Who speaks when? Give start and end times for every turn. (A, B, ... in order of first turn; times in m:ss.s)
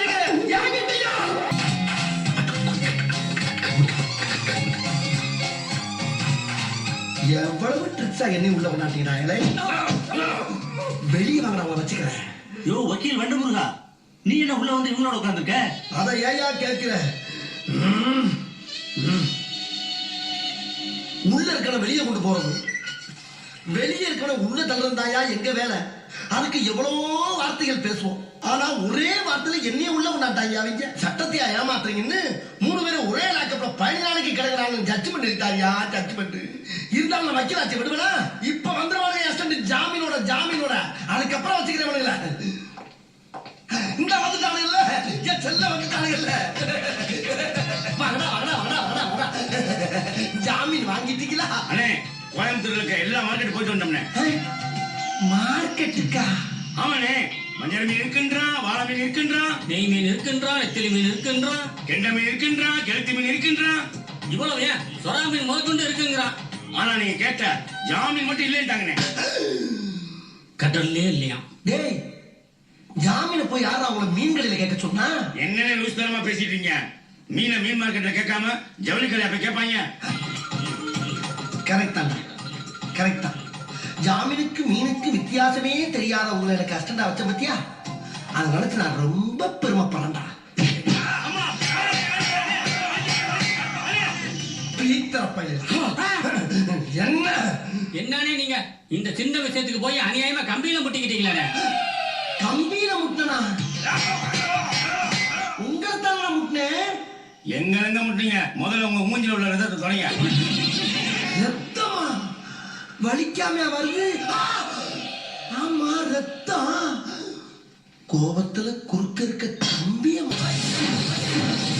0:00.3-0:01.3 A
0:02.4-0:02.9 A
0:03.6-0:04.7 A
0:07.3-0:09.7 A
0:11.1-0:12.2 A
0:12.6-0:13.7 B
0:14.2-0:15.6 B
0:16.0-0:17.0 A
0:17.7-0:18.4 A
0:19.0-0:19.3 A
0:21.3-0:22.6 A
0:23.7-0:25.8 A
0:26.3-0:42.3 A
0:43.8-0:51.6 A
0:51.7-0:54.1 C
0:55.3-0:56.3 A
0:56.8-0:59.6 C
0:59.7-1:01.7 D
1:01.9-1:03.8 C
1:04.3-1:06.3 D
1:06.7-1:09.0 C
1:10.6-1:11.4 D
1:11.7-1:12.0 A
1:13.0-1:15.1 A
1:15.4-1:16.8 C
1:17.3-1:19.8 C
1:21.7-1:22.2 A
1:23.0-1:23.4 A
1:24.0-1:27.6 A
1:28.4-1:30.3 A
1:31.2-1:34.1 C
1:34.8-1:37.8 A
1:38.0-1:41.5 D
1:42.4-1:43.5 A
1:45.6-1:46.9 A
1:47.5-1:50.3 C
1:51.4-1:52.2 A
1:53.0-1:57.0 A
1:58.1-2:00.7 A